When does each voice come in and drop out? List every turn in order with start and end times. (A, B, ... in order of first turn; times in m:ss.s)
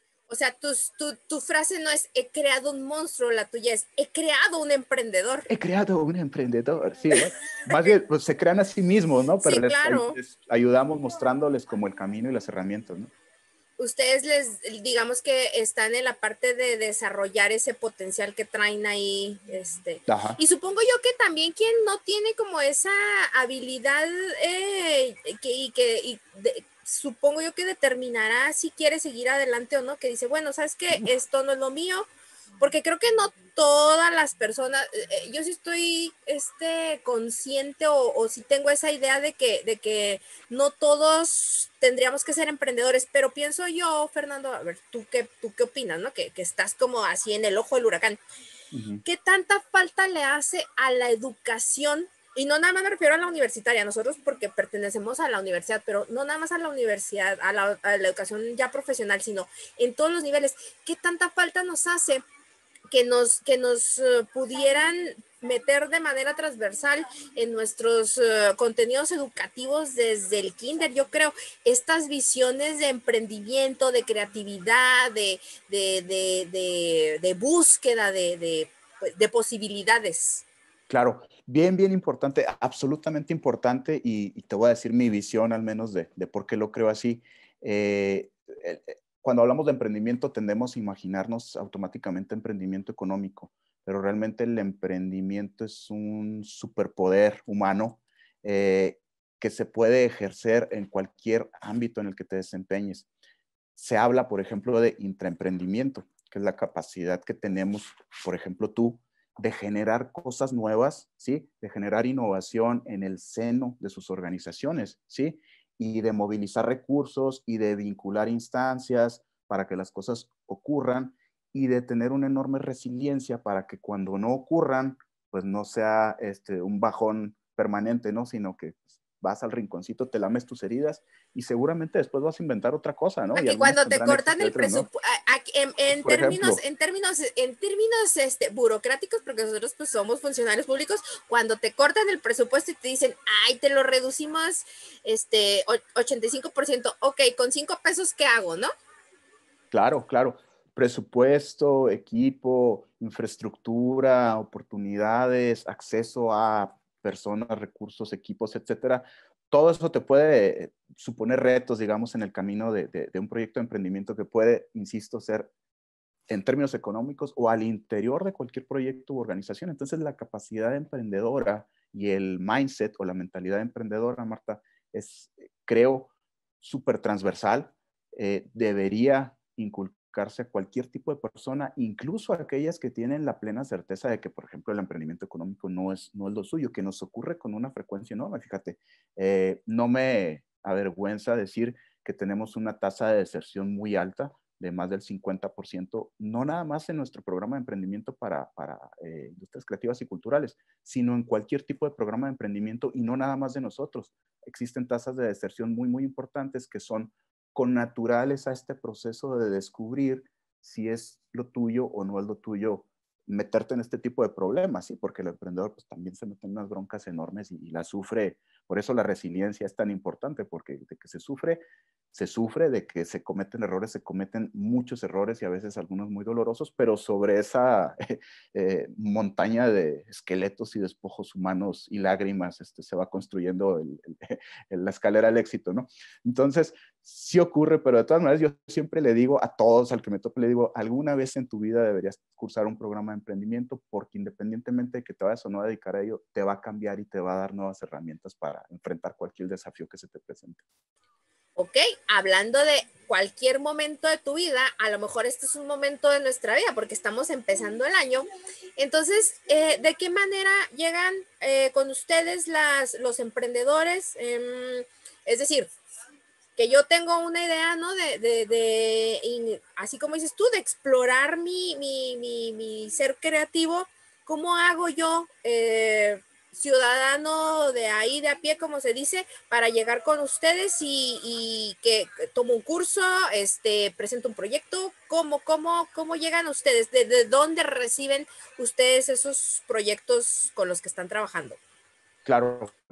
0:00.3-0:05.5 A
0:05.5-0:13.1 B
0:09.4-0:10.2 A
0:13.8-0:32.1 A
0:20.1-0:20.4 B
0:32.6-0:48.2 A
0:48.7-0:49.0 B
0:49.0-1:02.2 A
1:02.9-1:20.4 A
1:20.9-1:43.1 B
1:43.8-2:14.9 B
2:13.3-2:28.7 A
2:15.9-2:16.6 B
2:29.7-2:45.5 B
2:46.3-3:41.6 B
3:42.1-4:10.6 B
4:11.6-4:25.7 A
4:26.6-4:51.6 A
4:52.2-4:52.7 B